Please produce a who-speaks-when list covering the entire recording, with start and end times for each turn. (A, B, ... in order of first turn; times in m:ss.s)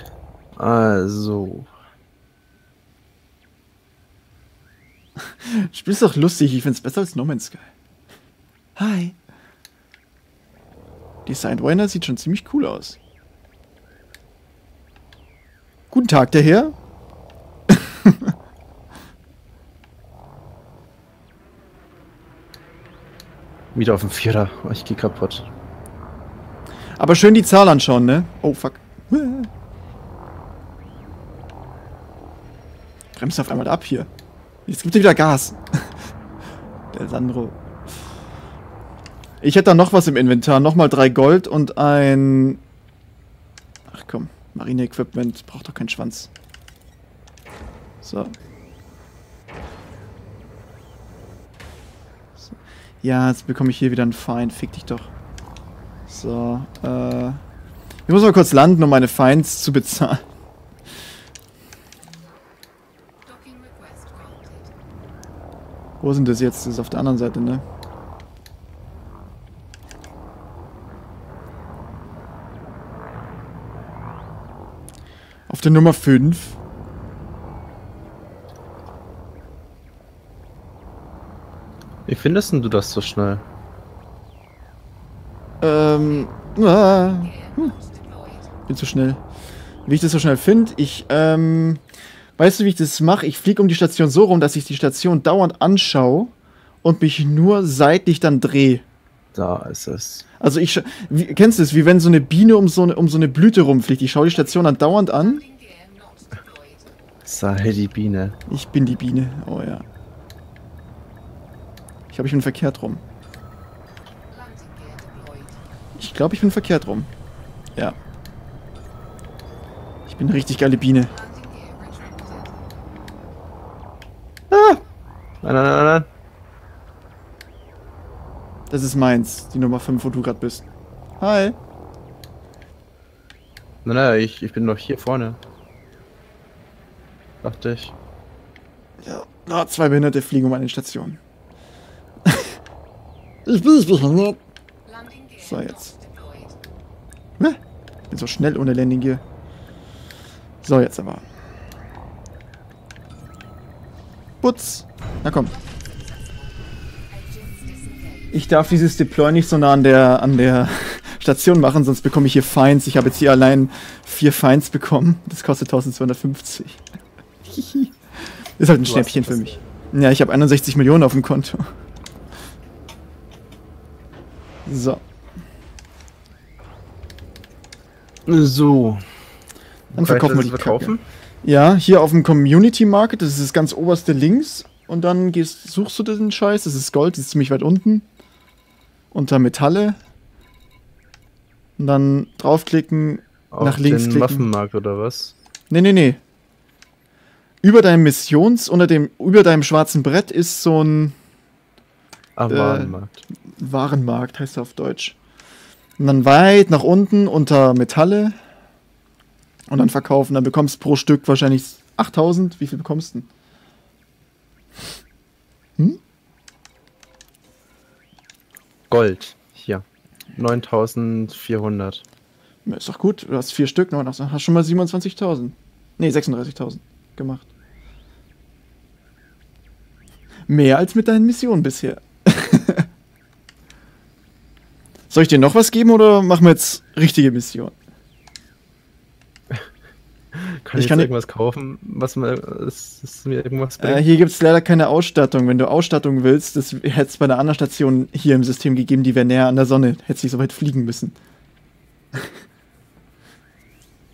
0:00.6-0:01.7 A
0:05.4-0:07.7 B
0:08.8-0:09.2 B
0:11.3-0:13.0 B
0:15.9-0:16.8 B
0:17.7-0:18.3 B
0:23.7-0:25.5 A
0:27.0-0:29.5 B
0:33.2-0:34.1 B
0:34.7-0:35.9 B
0:36.9-0:37.6 B
0:39.4-0:42.6 B
0:43.9-0:46.3 B
0:48.0-0:48.3 B
0:52.4-0:55.1 B
0:56.1-0:57.4 B
0:58.1-1:00.2 B
1:03.2-1:04.7 C
1:06.0-1:07.6 B
1:15.5-1:16.6 B
1:22.1-1:23.4 A
1:25.6-1:27.7 B
1:25.9-1:28.5 C
1:28.7-1:29.2 B
1:29.9-1:31.8 B
1:32.4-1:36.3 B
1:36.8-1:38.8 B
1:39.3-1:40.2 A
1:40.4-1:45.4 B
1:44.3-1:47.0 C
1:47.3-1:48.4 A
1:48.5-1:49.8 B
1:52.1-1:53.0 B
1:54.3-1:55.6 C
1:56.0-1:57.1 B
2:00.1-2:01.1 B
2:01.0-2:02.8 C
2:05.4-2:06.1 A
2:08.7-2:10.6 B
2:11.2-2:11.6 B
2:13.8-2:15.4 A
2:17.4-2:17.9 A
2:19.0-2:21.2 B
2:22.2-2:22.6 B
2:23.5-2:24.4 B
2:24.8-2:26.6 C
2:25.4-2:25.9 B
2:28.1-2:29.2 B
2:30.6-2:31.2 B
2:34.4-2:35.6 B
2:35.3-2:39.4 C
2:38.3-2:46.8 B
2:47.5-2:47.9 B
2:48.6-2:51.7 B
2:48.8-2:49.6 A
2:54.7-2:55.0 B
2:58.3-2:59.1 A
2:59.9-3:01.0 A
2:59.9-3:08.1 B
3:09.1-3:10.0 B
3:11.8-3:14.5 B
3:13.5-3:15.4 A
3:15.7-3:16.2 B
3:17.6-3:21.2 B
3:22.4-3:23.2 A
3:22.5-3:23.0 B
3:23.6-3:25.2 B
3:26.0-3:28.4 B
3:29.7-3:33.3 B
3:38.9-3:42.0 A
3:42.7-3:47.5 B
3:50.5-3:52.9 B
3:55.1-3:57.8 B
4:00.3-4:04.0 A
4:00.8-4:01.1 B
4:03.8-4:11.2 B